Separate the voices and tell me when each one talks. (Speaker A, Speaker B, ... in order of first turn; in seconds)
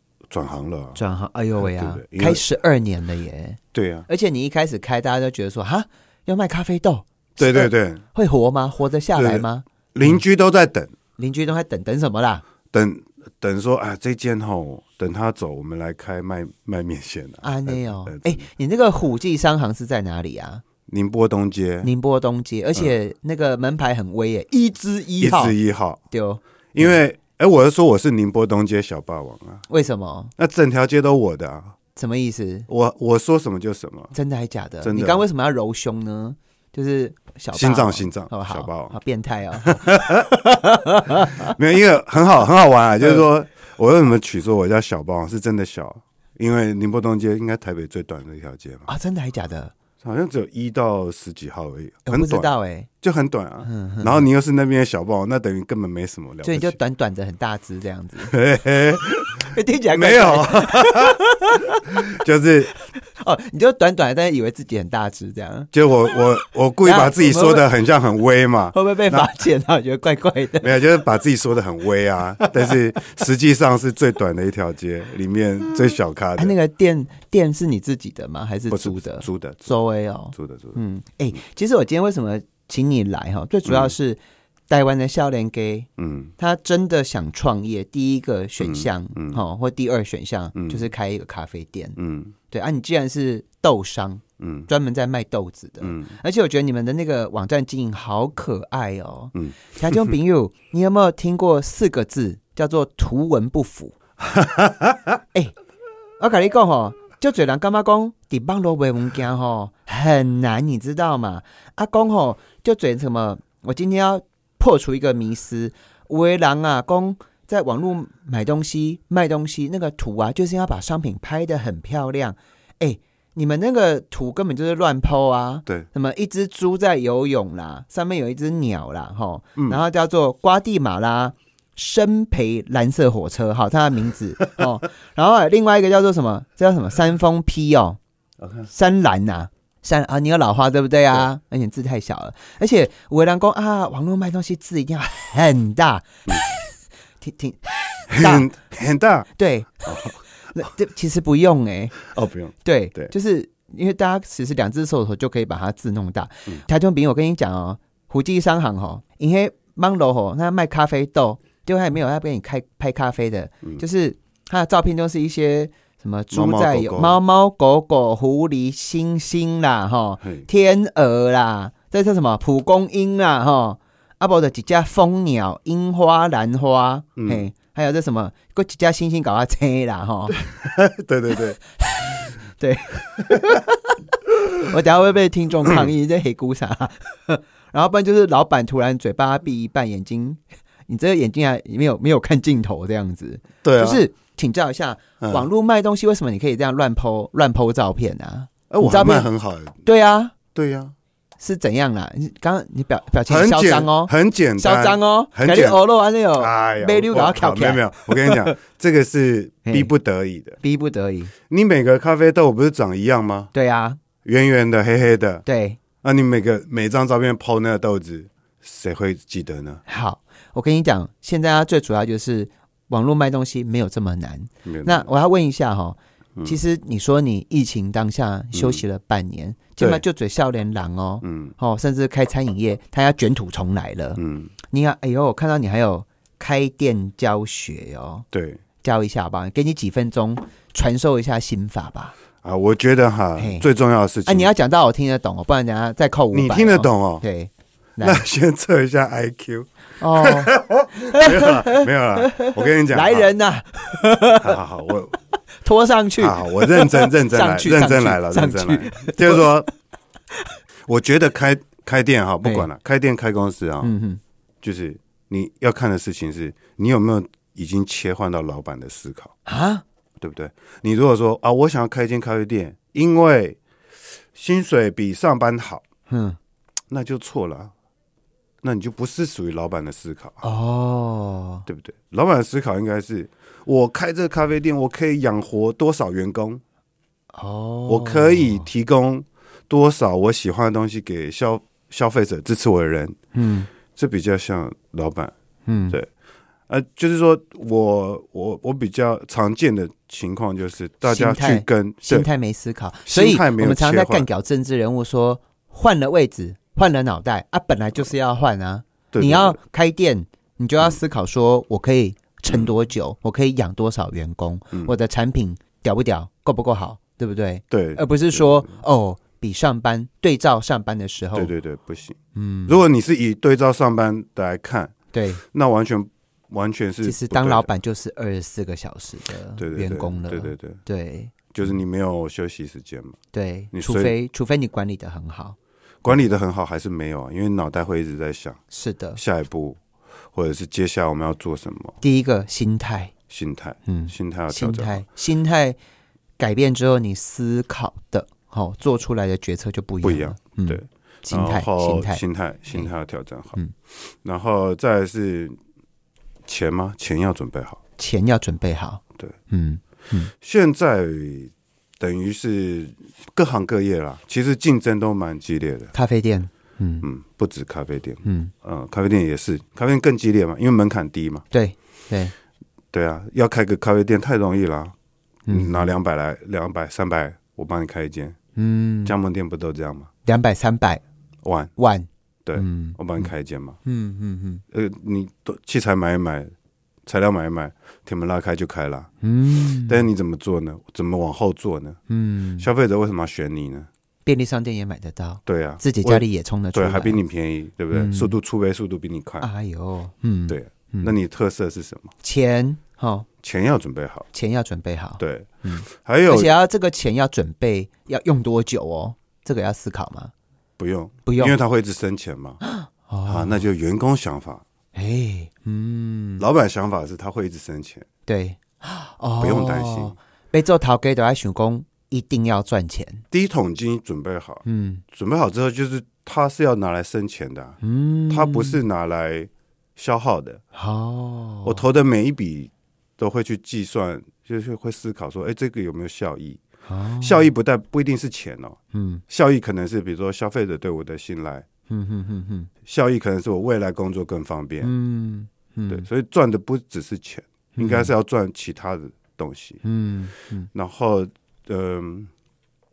Speaker A: 0.3-1.0, 1.6-2.4, 3.7-4.1, 7.4-8.0, 9.1-10.9, 12.7-18.4, 20.9-21.9, 25.2-26.0, 26.7-29.6, 30.4-31.8, 32.7-34.1, 34.8-35.2, 37.5-38.9, 39.6-40.3, 41.2-48.9, 50.0-52.5, 53.0-56.8, 58.3-61.2, 61.9-62.7, 65.7-69.3, 70.6-76.5, 78.7-79.7, 80.3-80.8, 83.7-83.9, 86.0-86.3, 88.6-89.4, 90.5-90.9, 92.0-92.3, 94.4-94.7, 95.8-96.1, 99.3-100.1, 104.2-105.2, 129.6-129.8, 138.4-138.7, 148.1-149.3, 149.8-150.2, 152.0-153.1, 166.3-167.2, 177.2-177.5, 180.4-181.6, 193.6-194.0, 195.2-195.5, 198.7-199.8, 200.5-200.9, 203.3-205.8, 206.3-210.6, 211.5-213.5, 214.2-215.4, 216.0-219.8, 224.6-225.1, 228.5-228.8, 231.2-231.5, 234.2-234.5, 238.3-238.6, 242.4-244.5, 246.3-247.2, 248.0-253.3, 254.3-255.2, 256.2-259.7, 260.9-263.9, 264.6-269.4, 270.2-273.6, 274.3-275.8, 276.9-277.7, 278.6-280.4, 281.7-286.6, 287.9-293.2, 293.9-295.3, 296.7-302.3, 303.1-304.3, 309.1-309.6, 317.7-318.8, 321.3-324.9, 325.5-327.7, 329.6-330.8, 331.5-333.2, 333.7-334.1, 336.0-338.6, 339.1-339.8, 340.3-342.0, 343.3-345.0, 350.0-355.5, 356.4-357.8, 360.4-365.9, 367.0-371.4, 372.9-374.9, 375.5-378.4, 379.1-380.1, 381.4-381.7, 382.4-383.8, 384.7-386.5, 387.1-389.1, 389.9-392.0, 392.6-393.9, 395.4-399.5, 400.5-402.1, 403.4-404.3, 405.2-406.5, 410.8-412.6, 413.2-414.6, 416.4-418.1, 419.4-420.2, 423.3-427.8, 428.3-430.6, 431.6-436.6, 437.2-438.8, 439.3-441.6, 442.8-444.9, 445.9-449.8, 450.7-452.3
Speaker B: 0.9-10.2, 11.2-12.4, 17.4-20.6, 21.8-25.6, 26.1-26.9, 29.7-30.3, 31.9-32.7, 34.1-41.5, 48.9-49.7, 52.0-52.9, 53.6-54.3, 56.4-58.3, 59.4-62.0, 62.9-65.7, 66.8-67.7, 68.7-70.8, 72.4-73.0, 76.3-92.0, 92.5-103.9, 106.2-138.0, 138.7-146.5, 147.2-148.5, 149.4-152.0, 152.6-180.4, 181.9-183.9, 184.5-199.3, 199.8-200.3, 201.4-208.6, 209.7-209.9, 210.6-211.3, 213.5-214.0, 215.4-215.8, 219.8-238.2, 238.8-242.1, 243.4-243.7, 244.2-248.2, 250.0-254.6, 255.6-259.7, 263.8-264.2, 269.4-269.8, 276.1-276.4, 280.4-281.7, 287.3-288.7, 293.3-293.7, 295.6-296.0, 301.0-321.5, 322.3-322.8, 325.1-325.4, 327.0-331.3, 333.3-335.6, 338.7-339.2, 342.0-343.1, 343.9-345.8, 346.4-352.2, 358.0-360.3, 365.9-367.1, 368.2-368.5, 371.5-372.3, 375.5-375.9, 378.6-379.1, 380.2-381.0, 381.8-383.3, 383.8-384.6, 389.2-390.1, 392.1-392.7, 394.2-397.2, 397.9-398.4, 399.4-401.1, 402.2-403.3, 404.3-410.3, 411.2-411.6, 412.6-413.6, 414.9-416.4, 418.3-423.2, 424.6-425.0, 427.8-428.8, 430.7-431.8, 436.9-437.5, 438.9-439.2, 441.9-442.7, 444.8-446.1, 447.8-448.1, 449.8-450.7